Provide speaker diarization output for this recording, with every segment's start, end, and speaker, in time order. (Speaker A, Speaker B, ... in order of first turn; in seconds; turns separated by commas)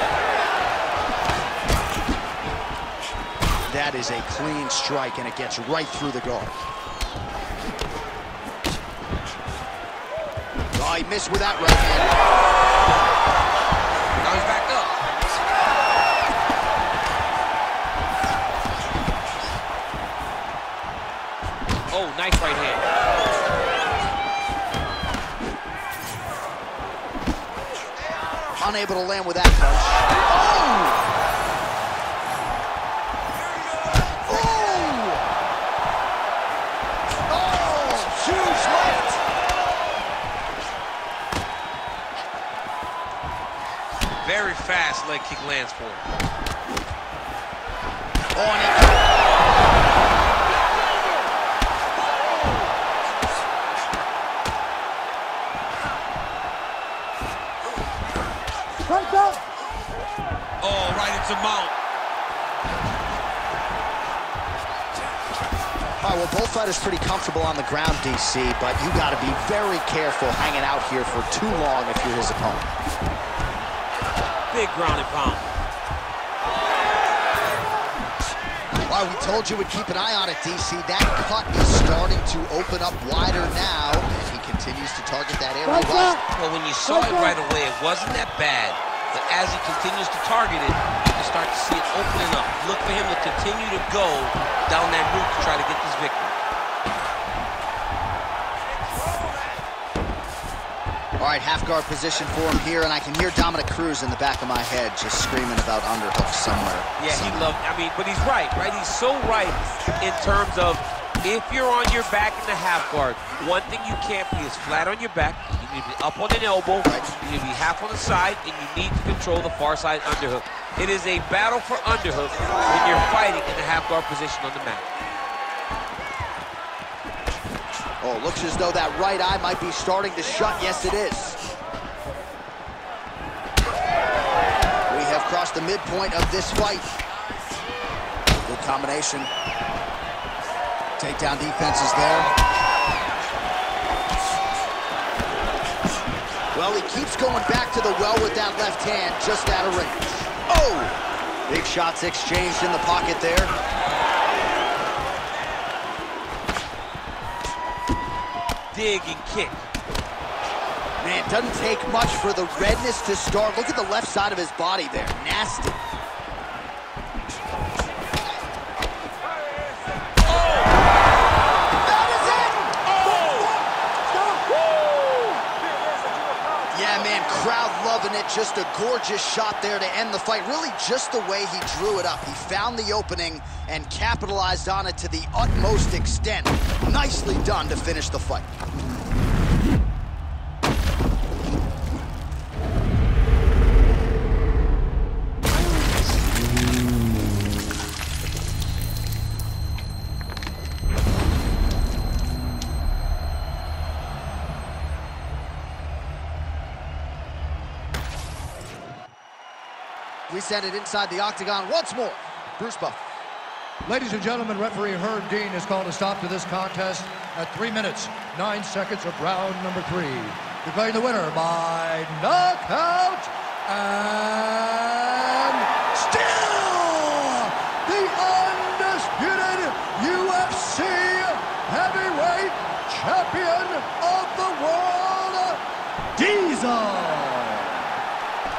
Speaker A: 3.7-6.5, Speaker A: 10.7-12.1, Speaker B: 14.2-14.9, Speaker B: 21.9-22.9, Speaker A: 28.6-31.1, Speaker A: 34.2-35.3, Speaker A: 37.3-39.2, Speaker B: 44.2-46.0, Speaker A: 48.3-49.0, Speaker C: 58.9-59.4, Speaker B: 60.6-61.7, Speaker A: 66.0-72.7, Speaker B: 74.5-75.5, Speaker A: 78.9-86.2, Speaker B: 86.3-96.3, Speaker A: 101.2-107.5, Speaker B: 107.0-124.9, Speaker A: 116.8-117.1, Speaker A: 128.0-131.4, Speaker A: 134.9-136.9, Speaker A: 138.4-139.3, Speaker A: 141.0-142.3, Speaker A: 146.5-153.5, Speaker B: 158.7-159.6, Speaker A: 161.0-165.8, Speaker A: 171.9-173.3, Speaker A: 176.7-188.5, Speaker A: 210.3-213.0, Speaker C: 213.8-235.6, Speaker C: 236.2-237.9